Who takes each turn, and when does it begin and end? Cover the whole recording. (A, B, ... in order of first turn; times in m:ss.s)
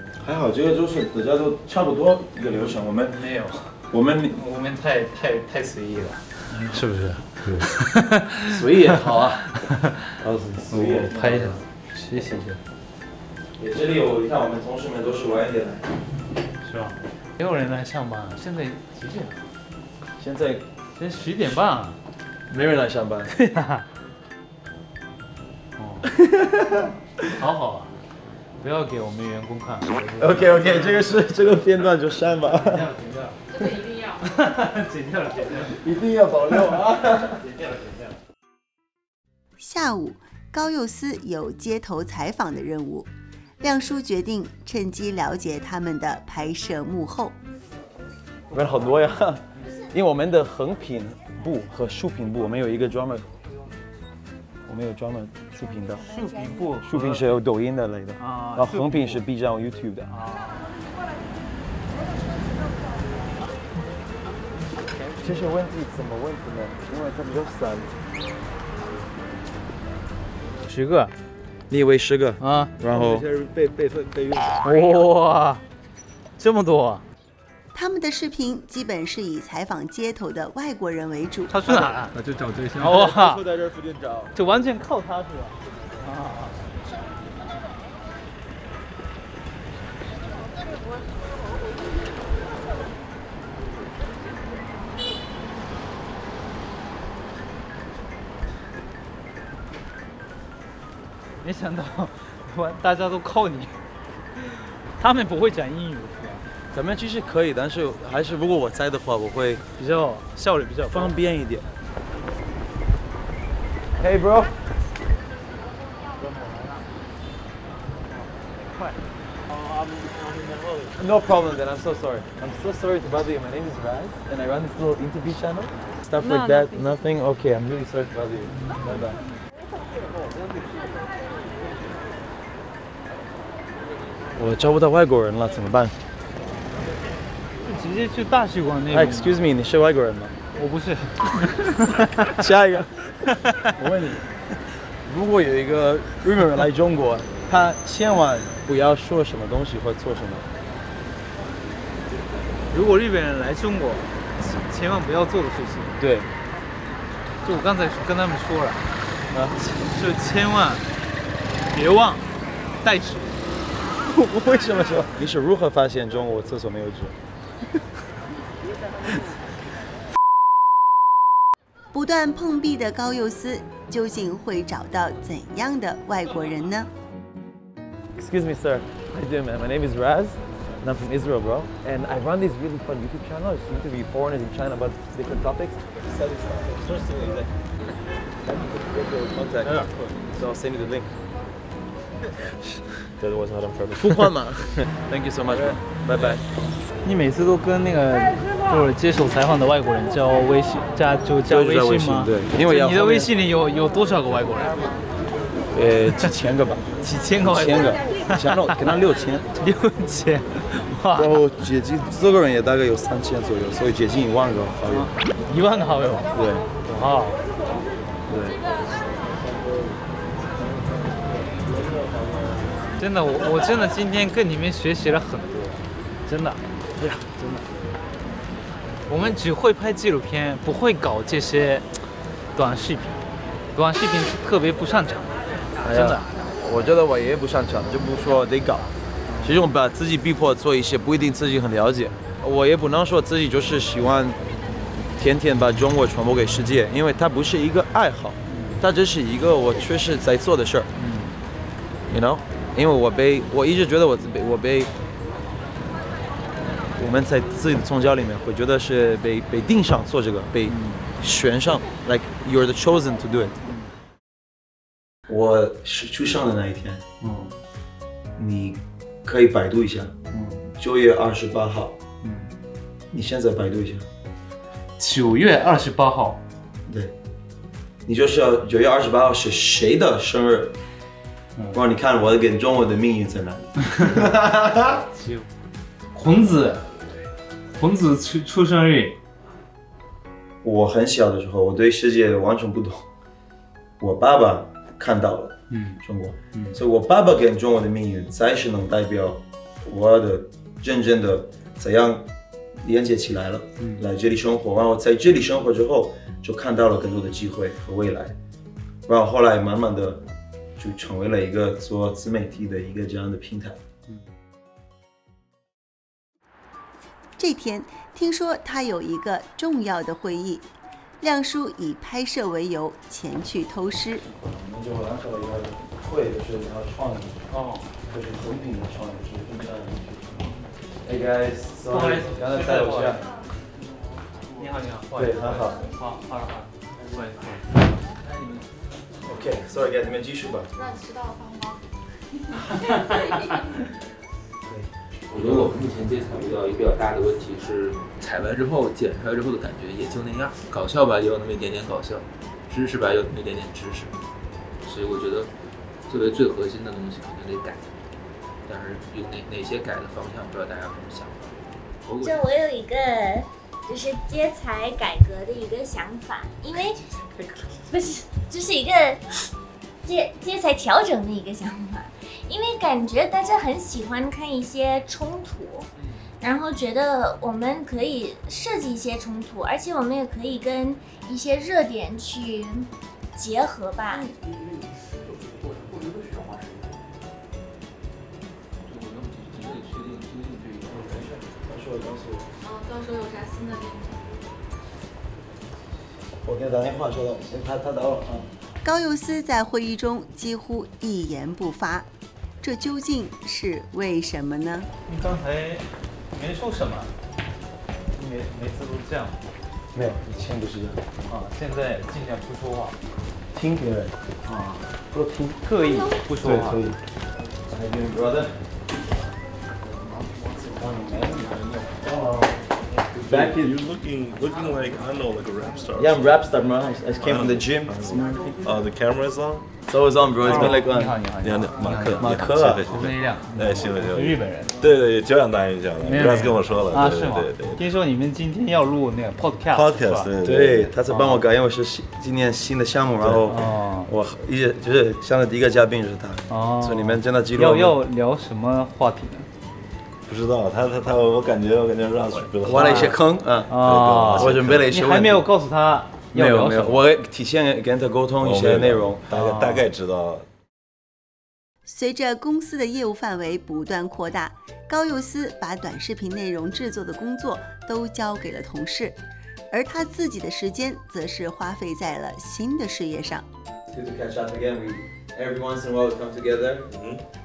0:00.2-0:03.2 A
0:02.4-0:08.5 B
0:03.9-0:04.4 A
0:08.5-0:09.6 A
0:10.2-0:11.6 A
0:10.7-0:12.6 B
0:13.6-0:15.9 A
0:16.6-0:19.4 B
0:20.2-0:20.6 A
0:20.9-0:22.0 B
0:22.5-0:23.3 A
0:23.3-0:23.8 B
0:25.8-0:26.1 B
0:26.1-0:26.9 A
0:27.3-0:27.9 B
0:28.6-0:31.2 B
0:30.2-0:32.8 A
0:32.4-0:35.8 B
0:33.7-0:34.0 C
0:35.8-0:37.4 A
0:37.3-0:38.2 B
0:39.6-0:47.3 D
0:48.5-0:53.3 A
0:54.7-0:56.1 A
0:56.0-0:57.3 B
0:56.8-1:00.1 A
0:58.2-0:59.2 B
1:00.1-1:00.7 B
1:05.2-1:07.9 A
1:10.6-1:11.1 B
1:11.7-1:13.3 A
1:12.4-1:12.7 B
1:14.6-1:15.6 B
1:16.4-1:17.0 B
1:17.7-1:21.5 D
1:21.5-1:22.1 B
1:22.8-1:23.4 B
1:23.3-1:24.0 A
1:24.3-1:26.6 B
1:41.4-1:43.8 B
1:45.0-1:46.4 B
1:46.7-1:49.6 A
1:49.8-1:51.2 B
1:50.9-1:51.7 A
1:54.0-1:54.6 A
2:00.9-2:09.2 A
2:06.2-2:06.6 B
2:14.4-2:16.0 A
2:17.6-2:19.4 B
2:18.9-2:20.4 A
2:20.5-2:22.0 B
2:22.2-2:22.9 A
2:23.8-2:24.3 A
2:25.0-2:30.5 A
2:32.7-2:36.0 B
2:36.0-2:36.3 A
2:37.4-2:38.9 B
2:39.3-2:39.6 A
2:39.6-2:40.9 B
2:41.7-2:42.2 B
2:42.8-2:43.3 B
2:44.0-2:47.2 A
2:51.9-2:56.9 D
2:58.2-3:07.5 A
3:08.5-3:11.2 A
3:09.6-3:10.2 B
3:13.9-3:16.4 A
3:17.0-3:25.0 B
3:21.4-3:23.3 A
3:25.7-3:29.4 A
3:27.0-3:28.2 B
3:29.5-3:31.3 B
3:31.1-3:35.1 A
3:34.9-3:36.3 B
3:36.3-3:36.7 A
3:36.8-3:37.4 B
3:38.3-3:38.6 A
3:39.3-3:39.9 A
3:40.5-3:42.6 A
3:43.0-3:46.6 B
3:46.9-3:47.8 A
3:49.1-3:51.9 B
3:52.5-3:53.2 B
3:53.7-3:55.3 B
3:55.8-3:58.9 A
3:55.9-3:56.2 B
3:59.3-3:59.6 B
3:59.4-4:04.4 A
4:05.2-4:10.9 A
4:08.5-4:08.8 B
4:10.9-4:11.4 B
4:12.1-4:14.9 A
4:17.0-4:23.6 A
4:20.7-4:21.1 B
4:25.3-4:27.0 A
4:27.2-4:27.5 B
4:28.4-4:32.0 A
4:32.2-4:32.5 B
4:33.1-4:34.1 A
4:35.0-4:36.4 B
4:36.9-4:37.1 A
4:38.0-4:40.8 A
4:41.7-4:45.0 A
4:44.9-4:45.5 B
4:46.1-4:46.9 B
4:47.8-4:49.2 B
4:50.6-4:53.0 A
4:54.0-5:02.3 A
4:55.7-4:56.0 B
5:02.8-5:08.4 A
5:03.8-5:04.0 B
5:09.1-5:10.2 A
5:10.8-5:13.8 A
5:17.4-5:20.7 D
5:21.2-5:24.2 D
5:24.3-5:27.5 A
5:27.5-5:28.2 B
5:28.1-5:30.3 A
5:31.0-5:33.3 A
5:31.9-5:33.3 B
5:34.6-5:37.8 B
5:35.1-5:35.8 A
5:38.2-5:38.6 E
5:39.2-5:40.7 A
5:40.8-5:41.7 C
5:44.6-5:44.9 A
5:45.3-5:54.1 E
5:54.8-5:55.5 E
5:56.1-5:57.9 E
5:58.7-6:02.4 E
6:02.2-6:09.2 F
6:10.0-6:15.8 F
6:16.4-6:24.3 F
6:25.4-6:26.9 E
6:28.8-6:31.2 E
6:30.9-6:32.5 A
6:32.6-6:33.9 C
6:36.4-6:38.5 A
6:38.8-6:42.1 D
6:42.6-6:44.9 D
6:45.0-6:47.1 B
6:48.1-6:49.4 B
6:49.9-6:51.1 A
6:51.3-6:53.0 B
6:53.5-6:54.1 A
6:54.4-6:54.8 B
6:55.1-6:55.6 A
6:55.6-6:56.8 B
6:56.4-6:57.0 A
6:57.7-6:58.6 A
7:00.6-7:03.8 A
7:03.1-7:06.3 G
7:05.9-7:08.5 A
7:07.1-7:09.7 G
7:09.9-7:11.2 A
7:10.4-7:12.1 B
7:10.4-7:10.7 G
7:11.4-7:17.8 G
7:12.0-7:12.9 A
7:12.8-7:14.7 B
7:16.0-7:20.3 B
7:19.7-7:20.9 G
7:20.4-7:28.0 A
7:21.1-7:21.4 B
7:23.2-7:23.5 G
7:23.5-7:24.1 B
7:26.5-7:29.5 B
7:30.3-7:34.9 G
7:32.6-7:35.5 A
7:32.7-7:33.1 B
7:33.7-7:37.0 B
7:36.3-7:39.2 A
7:38.4-7:40.5 G
7:39.3-7:39.8 B
7:41.8-7:49.2 D
7:49.7-7:53.4 D
7:53.9-7:56.9 A
7:56.9-7:57.2 G